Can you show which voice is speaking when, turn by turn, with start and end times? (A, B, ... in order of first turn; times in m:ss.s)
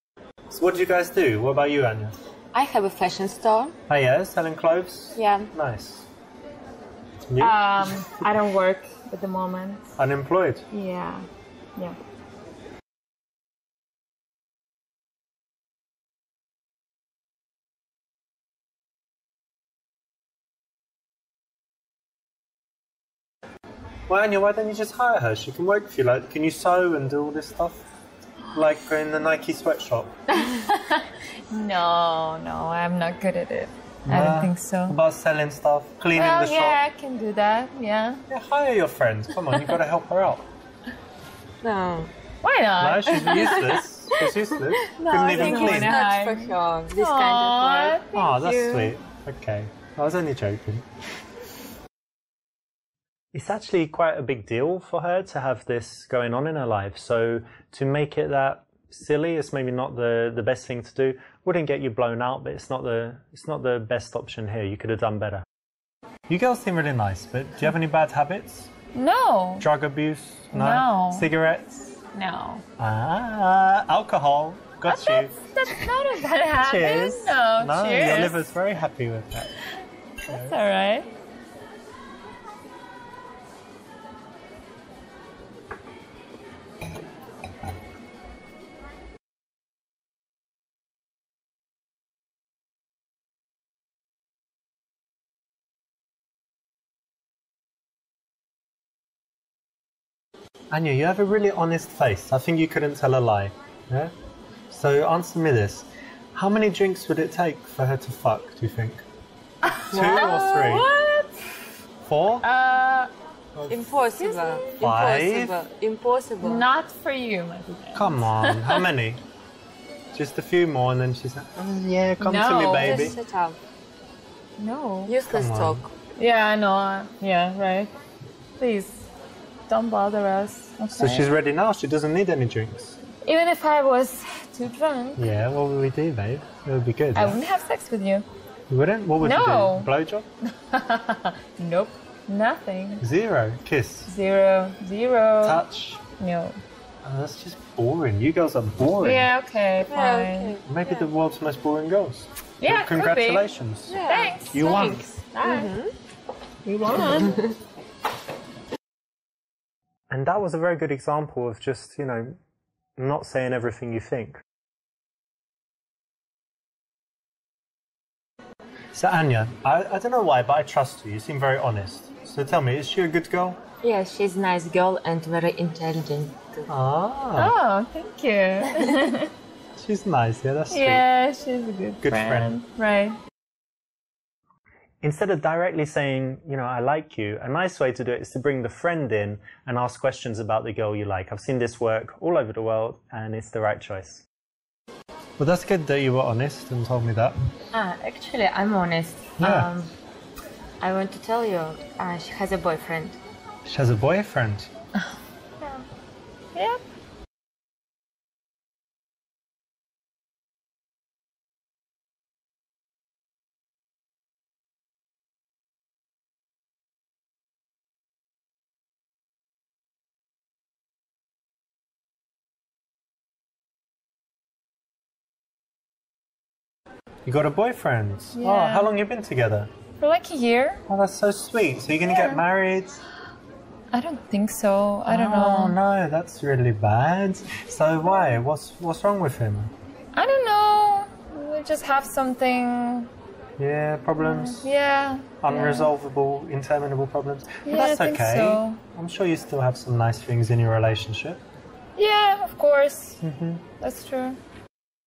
0:00.5-0:02.2 A
0:02.5-0:03.8 B
0:03.9-0:06.1 A
0:05.2-0:05.5 B
0:07.2-0:08.3 A
0:07.4-0:09.9 C
0:10.0-0:10.7 A
0:10.7-0:12.0 C
0:24.1-0:27.8 A
0:28.5-0:30.2 A
0:30.3-0:35.0 C
0:34.1-0:36.8 A
0:36.1-0:38.2 C
0:38.3-0:40.5 A
0:41.6-0:42.1 B
0:42.4-0:43.7 C
0:42.8-0:46.0 A
0:43.2-0:48.0 B
0:45.1-0:49.0 C
0:48.1-0:50.9 A
0:53.3-1:05.4 A
1:06.3-1:08.7 A
1:08.9-1:09.7 C
1:09.6-1:11.9 A
1:10.5-1:11.3 C
1:12.1-1:12.6 C
1:12.8-1:15.3 A
1:14.9-1:18.5 C
1:16.6-1:19.5 A
1:20.3-1:20.6 A
1:20.3-1:21.1 C
1:40.7-1:44.1 A
1:44.7-1:49.0 A
1:49.6-1:51.4 C
1:49.7-1:50.9 A
1:52.0-1:52.5 A
1:52.4-1:53.1 C
1:53.6-1:54.0 A
1:53.7-1:56.7 B
1:54.2-1:54.8 C
1:54.8-1:55.6 A
1:56.4-1:58.8 C
1:57.9-1:59.2 A
2:00.1-2:03.2 A
2:02.2-2:03.2 C
2:02.8-2:03.6 B
2:04.6-2:05.2 C
2:05.1-2:05.9 B
2:05.3-2:05.8 A
2:06.2-2:07.9 C
2:08.6-2:09.1 C
2:09.7-2:11.3 C
2:11.0-2:13.0 A
2:13.2-2:15.2 C
2:15.2-2:17.4 A
2:17.2-2:18.3 C
2:18.7-2:20.3 A
2:19.2-2:19.9 C
2:20.4-2:23.0 C
2:23.0-2:24.1 A
2:24.1-2:25.6 C
2:25.4-2:26.0 A
2:26.2-2:26.6 C
2:27.0-2:29.3 A
2:29.0-2:30.6 C
2:29.9-2:31.1 B
2:30.7-2:35.0 A
2:32.6-2:33.5 C
2:33.9-2:35.9 B
2:34.0-2:35.7 C
2:36.6-2:37.5 C
2:40.1-2:42.4 A
2:43.0-2:44.4 A
2:48.9-2:53.6 A
2:53.8-2:56.7 B
2:56.7-2:57.6 A
2:57.4-2:59.3 C
2:59.7-3:01.0 A
3:00.7-3:03.2 C
3:02.0-3:02.5 A
3:05.0-3:14.2 A
3:15.4-3:17.4 A
3:17.7-3:19.9 B
3:19.4-3:19.7 A
3:20.8-3:23.2 B
3:23.6-3:24.7 A
3:26.6-3:26.8 C
3:47.2-3:49.7 A
3:48.4-3:48.9 C
3:50.0-3:50.8 C
3:50.9-3:53.0 A
3:52.0-3:52.4 C
3:53.9-3:55.8 C
3:55.1-3:59.7 A
4:00.2-4:03.1 C
4:03.6-4:04.7 A
4:04.2-4:05.9 C
4:05.4-4:11.4 A
4:07.6-4:08.8 C
4:12.0-4:13.2 C
4:13.2-4:13.6 A
4:13.8-4:14.4 C